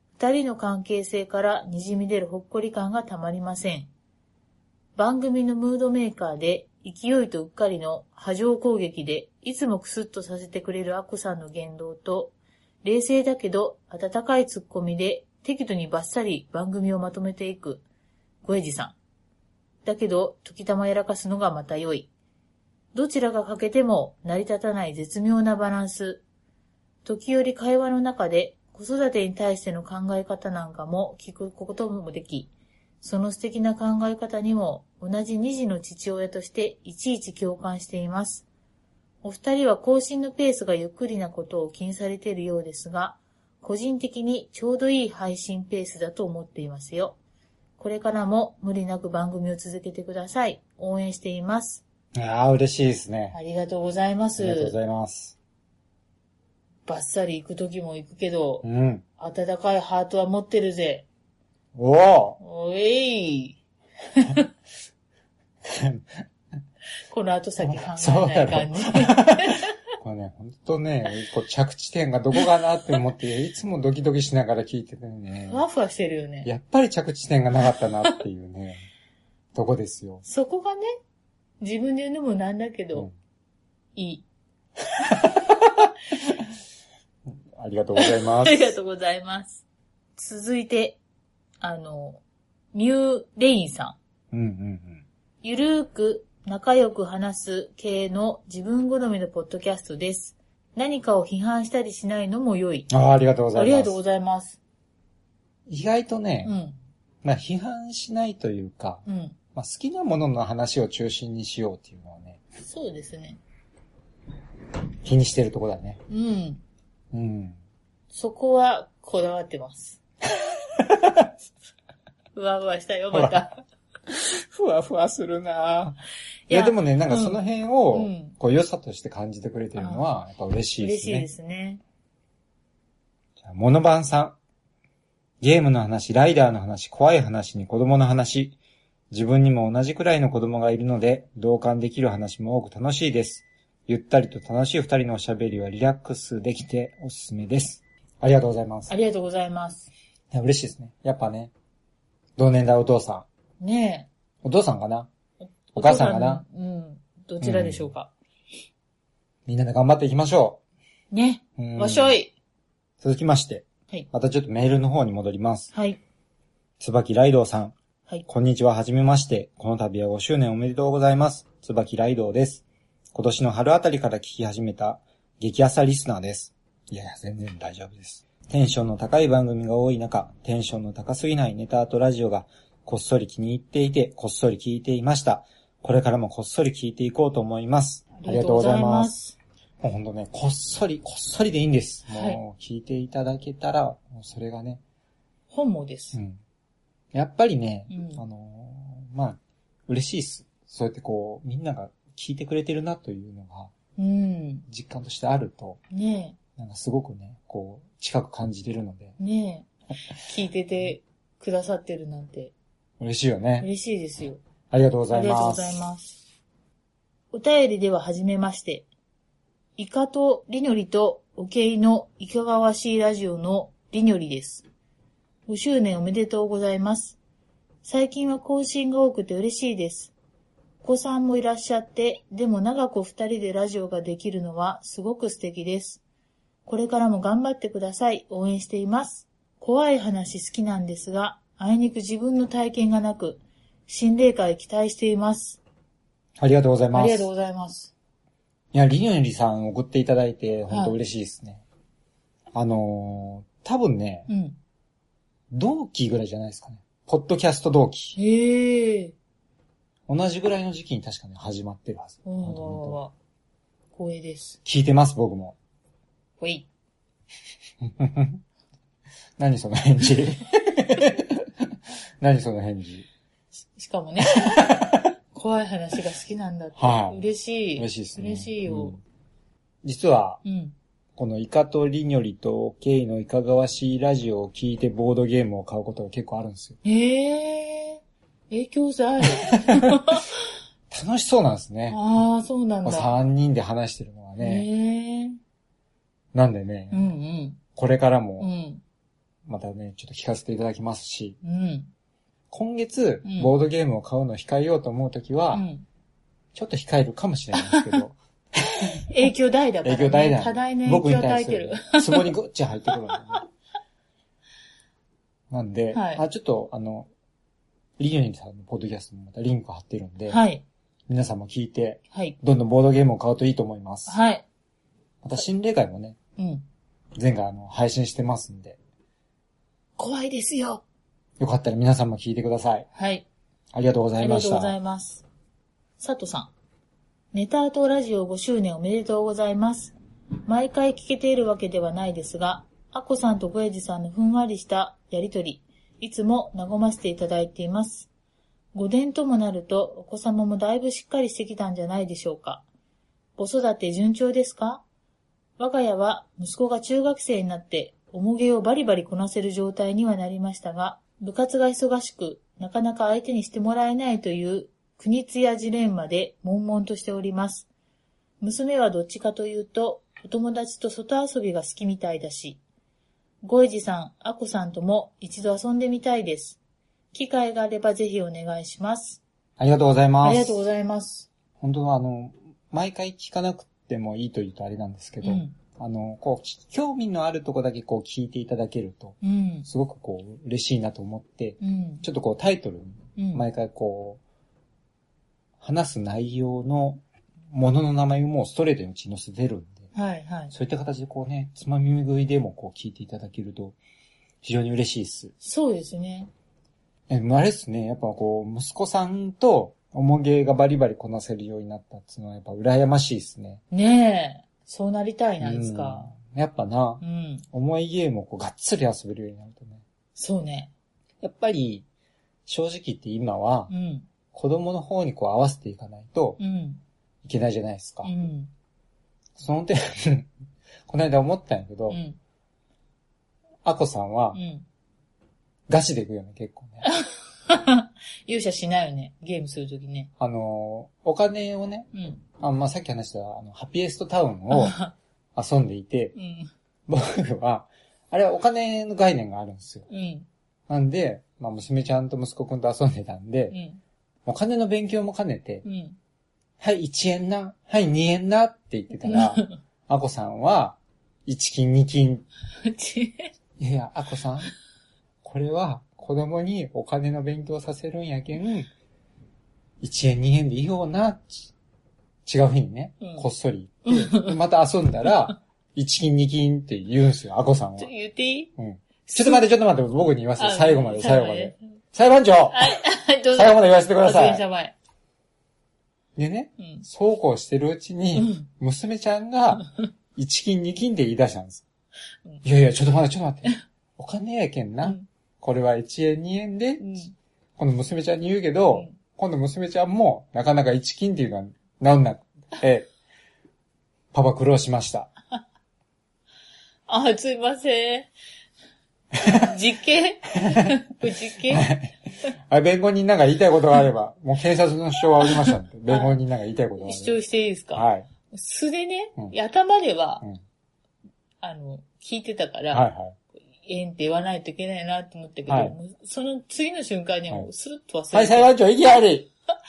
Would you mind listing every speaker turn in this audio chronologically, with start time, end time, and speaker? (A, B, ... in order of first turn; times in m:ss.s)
0:00.2-0:03.9 A
0:05.0-0:17.8 A
0:18.4-0:19.0 A
0:19.8-0:22.1 A
0:22.9-0:26.2 A
0:27.0-0:38.5 A
0:39.2-0:47.2 A
0:47.8-0:51.8 A
0:52.1-0:53.4 B
0:53.3-0:54.8 A
0:54.4-0:55.4 B
0:56.9-0:58.6 A
0:58.6-0:59.0 B
0:59.2-1:01.1 A
1:01.8-1:02.4 B
1:02.4-1:03.6 A
1:04.2-1:04.5 A
1:05.6-1:06.2 B
1:07.1-1:09.7 A
1:07.6-1:15.6 B
1:15.4-1:16.5 A
1:16.4-1:18.8 B
1:19.6-1:20.2 B
1:20.2-1:20.9 A
1:21.6-1:23.1 A
1:24.0-1:24.2 A
1:25.1-1:25.9 B
1:27.5-1:28.7 B
1:28.0-1:29.6 A
1:30.2-1:31.0 A
1:31.6-1:32.2 A
1:32.7-1:34.0 A
1:34.3-1:35.0 B
1:35.4-1:42.9 A
1:42.9-1:44.0 B
1:43.5-1:44.6 A
1:45.7-1:46.6 B
1:46.4-1:46.8 A
1:47.2-1:49.0 B
1:49.1-1:49.4 A
1:49.6-1:52.4 B
1:52.6-1:53.4 A
1:55.0-1:56.0 B
1:56.1-1:56.6 A
1:57.1-1:57.6 B
1:58.1-2:00.0 A
2:00.8-2:01.3 B
2:02.4-2:03.6 A
2:03.1-2:03.4 B
2:04.1-2:06.0 B
2:06.5-2:08.4 A
2:06.5-2:11.3 B
2:09.8-2:10.0 A
2:10.8-2:11.8 A
2:13.4-2:14.4 B
2:15.4-2:18.6 B
2:19.1-2:28.9 B
2:28.9-2:29.9 A
2:30.3-2:31.5 B
2:32.4-2:33.3 B
2:33.6-2:34.1 A
2:34.4-2:35.1 B
2:35.4-2:38.1 A
2:35.8-2:36.4 B
2:37.4-2:37.9 B
2:39.5-2:40.6 B
2:41.1-2:42.3 A
2:41.6-2:42.2 B
2:43.0-2:45.7 B
2:45.7-2:46.0 A
2:46.8-2:47.8 B
2:48.3-2:52.6 B
2:53.1-3:09.2 B
3:08.2-3:09.4 A
3:09.8-3:14.8 B
3:12.1-3:12.4 A
3:15.5-3:16.2 A
3:16.1-3:16.4 B
3:17.1-3:23.7 B
3:17.9-3:18.2 A
3:24.0-3:24.7 A
3:24.7-3:25.8 B
3:25.9-3:26.4 A
3:26.6-3:29.2 B
3:29.2-3:32.5 A
3:33.0-3:33.7 B
3:33.6-3:34.4 A
3:34.7-3:35.8 B
3:35.1-3:36.2 A
3:37.3-3:38.9 A
3:39.8-3:44.6 A
3:45.5-3:47.2 A
3:47.8-3:50.1 A
3:50.8-3:56.0 A
3:56.7-4:05.6 A
4:06.4-4:07.3 B
4:06.9-4:07.9 A
4:08.7-4:11.6 B
4:10.7-4:11.0 A
4:12.5-4:14.3 B
4:14.3-4:14.6 A
4:15.5-4:18.2 B
4:18.2-4:19.2 A
4:20.1-4:23.0 B
4:22.2-4:23.1 A
4:23.9-4:24.6 A
4:24.6-4:25.6 B
4:26.4-4:26.7 A
4:27.8-4:28.4 B
4:29.4-4:31.5 B
4:32.2-4:33.1 B
4:33.7-4:39.0 A
4:34.4-4:35.1 B
4:36.8-4:37.2 B
4:37.8-4:39.0 B
4:39.8-4:40.4 B
4:40.4-4:40.8 A
4:41.2-4:46.8 B
4:46.8-4:50.4 A
4:49.5-4:50.0 B
4:50.9-4:52.0 B
4:51.9-4:53.1 A
4:52.8-4:54.7 B
4:54.4-4:55.4 A
4:56.3-4:57.1 B
4:56.9-4:57.6 A
4:57.8-4:58.5 B
4:58.4-4:58.8 A
4:59.5-5:01.4 B
5:01.4-5:01.9 A
5:02.5-5:05.6 B
5:03.2-5:03.5 A
5:05.5-5:05.8 A
5:06.5-5:08.2 B
5:07.6-5:08.0 A
5:08.7-5:09.0 B
5:09.1-5:12.3 A
5:09.8-5:13.4 B
5:15.5-5:17.1 B
5:15.9-5:16.2 A
5:18.0-5:20.4 B
5:20.3-5:20.6 A
5:21.1-5:24.2 B
5:22.1-5:22.4 A
5:24.1-5:24.4 A
5:25.2-5:26.2 B
5:26.4-5:26.6 A
5:27.2-5:28.8 B
5:30.0-5:30.8 A
5:31.4-5:32.9 B
5:32.9-5:33.3 A
5:33.7-5:34.8 B
5:34.2-5:35.2 A
5:36.0-5:36.5 A
5:37.3-5:40.0 A
5:40.5-5:48.1 A
5:48.7-5:52.6 A
5:53.4-5:54.8 A
5:55.6-6:07.7 A
6:08.4-6:12.6 A
6:13.4-6:16.6 A
6:17.1-6:19.2 A
6:19.6-6:20.6 B
6:20.2-6:21.3 A
6:21.6-6:34.2 B
6:25.2-6:25.6 A
6:29.2-6:29.7 A
6:31.6-6:32.1 A
6:33.2-6:33.4 A
6:35.6-6:39.9 B
6:39.9-6:40.5 A
6:40.5-6:43.8 B
6:44.4-6:45.3 B
6:45.4-6:46.3 A
6:47.1-6:53.6 B
6:53.7-6:56.1 A
6:55.4-6:59.8 B
6:57.0-6:57.4 A
7:00.2-7:00.7 A
7:01.2-7:01.8 B
7:02.5-7:03.7 B
7:03.7-7:04.1 A
7:04.3-7:06.4 B
7:06.4-7:06.8 A
7:07.2-7:08.1 B
7:08.0-7:08.5 A
7:09.4-7:10.3 B
7:10.9-7:12.0 B
7:11.9-7:12.2 A
7:13.6-7:14.4 B
7:14.3-7:14.6 A
7:15.7-7:16.8 B
7:16.8-7:20.1 A
7:20.2-7:24.8 B
7:21.9-7:22.2 A
7:24.5-7:24.9 A
7:25.4-7:26.1 B
7:26.2-7:26.5 A
7:26.9-7:29.9 B
7:29.9-7:30.3 A
7:30.7-7:33.6 B
7:33.5-7:33.8 A
7:34.3-7:35.6 B
7:35.6-7:36.0 A
7:36.6-7:42.3 B
7:39.0-7:39.6 A
7:42.6-7:43.3 A
7:43.6-7:44.5 B
7:45.2-7:48.7 B
7:49.8-7:51.5 B
7:52.3-7:57.9 B
7:53.0-7:53.3 A
7:53.9-7:54.4 A
7:57.8-7:58.5 A
7:58.6-8:02.8 B
7:59.1-7:59.5 A
8:00.4-8:01.6 A
8:02.5-8:04.8 A
8:03.3-8:04.4 B
8:06.2-8:11.6 B
8:06.6-8:06.8 A
8:08.2-8:08.5 A
8:12.4-8:17.0 B
8:14.8-8:15.1 A
8:16.8-8:17.1 A
8:17.6-8:22.9 B
8:18.7-8:19.0 A
8:24.1-8:25.1 B
8:26.9-8:28.1 A
8:29.2-8:29.5 B
8:29.2-8:31.7 A
8:31.5-8:32.0 B
8:32.5-8:37.2 B
8:35.2-8:36.2 A
8:36.8-8:40.2 A
8:37.8-8:38.1 B
8:41.4-8:42.9 A
8:42.7-8:43.2 B
8:43.6-8:48.5 A
8:45.5-8:45.8 B
8:48.1-8:49.3 B